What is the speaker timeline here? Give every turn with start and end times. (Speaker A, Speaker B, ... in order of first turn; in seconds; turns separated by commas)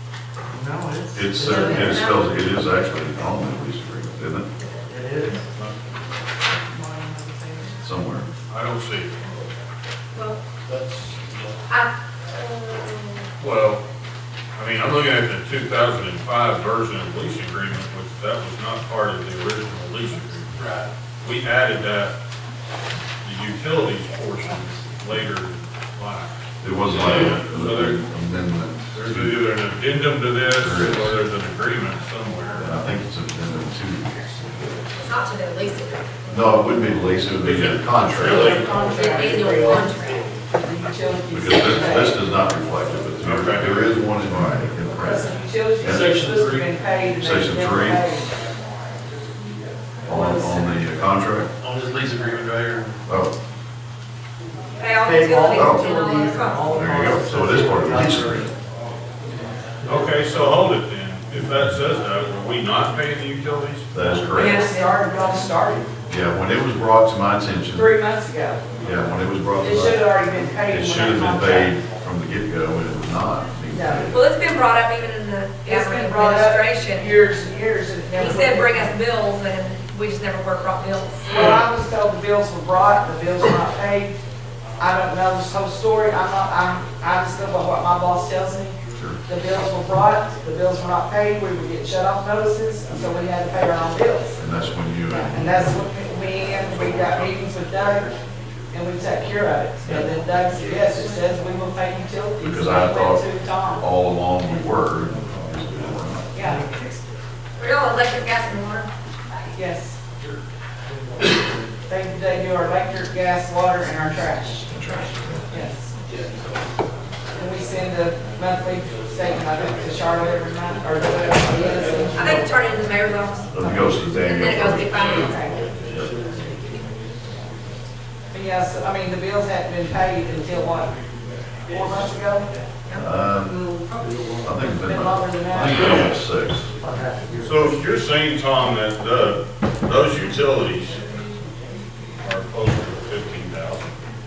Speaker A: 0.5-2.2, Speaker B: 1.1-4.5, Speaker C: 1.5-2.2, Speaker A: 4.8-5.4, Speaker D: 6.5-7.8, Speaker B: 7.8-8.3, Speaker E: 8.5-9.5, Speaker C: 10.1-10.4, Speaker F: 10.6-11.6, Speaker C: 11.7-13.3, Speaker E: 13.4-13.8, Speaker E: 14.5-20.5, Speaker F: 20.5-20.9, Speaker E: 21.2-22.1, Speaker E: 23.2-28.0, Speaker B: 26.6-29.4, Speaker E: 28.9-32.8, Speaker B: 30.5-31.2, Speaker B: 32.6-34.9, Speaker C: 35.0-36.1, Speaker B: 36.2-38.5, Speaker E: 37.4-38.8, Speaker D: 38.2-39.9, Speaker C: 38.9-40.2, Speaker D: 40.5-42.2, Speaker B: 41.3-45.2, Speaker E: 43.2-44.1, Speaker D: 44.9-48.3, Speaker F: 45.8-46.7, Speaker B: 47.1-48.1, Speaker B: 50.0-51.5, Speaker D: 50.1-50.6, Speaker F: 51.6-53.0, Speaker B: 53.1-53.3, Speaker C: 54.8-56.9, Speaker A: 55.0-58.5, Speaker B: 55.5-56.0, Speaker B: 56.6-58.5, Speaker E: 59.8-63.9, Speaker B: 63.9-64.6, Speaker D: 64.2-65.9, Speaker C: 64.3-65.0, Speaker B: 66.1-67.9, Speaker D: 67.7-68.6, Speaker B: 68.8-70.0, Speaker D: 69.6-71.8, Speaker B: 70.7-74.2, Speaker D: 73.7-74.0, Speaker C: 74.1-77.1, Speaker D: 75.6-79.0, Speaker C: 78.2-81.3, Speaker D: 81.3-84.1, Speaker D: 84.8-94.4, Speaker B: 94.4-95.6, Speaker D: 95.1-98.1, Speaker B: 96.8-97.3, Speaker D: 98.7-103.8, Speaker B: 102.4-103.2, Speaker B: 103.8-106.3, Speaker D: 106.3-106.6, Speaker A: 106.4-107.0, Speaker C: 107.6-108.9, Speaker D: 109.5-110.0, Speaker D: 111.9-114.7, Speaker C: 114.7-115.1, Speaker B: 114.8-115.4, Speaker D: 115.5-115.9, Speaker F: 116.1-116.4, Speaker D: 117.3-122.5, Speaker C: 122.1-125.3, Speaker B: 123.5-125.3, Speaker D: 125.2-125.5, Speaker B: 125.8-126.1, Speaker F: 125.9-126.6, Speaker D: 128.3-130.9, Speaker D: 131.7-132.5, Speaker B: 132.9-133.6, Speaker A: 134.0-134.6, Speaker B: 134.4-136.7, Speaker D: 134.8-136.1, Speaker A: 136.8-137.8, Speaker E: 137.4-141.0, Speaker E: 142.2-143.9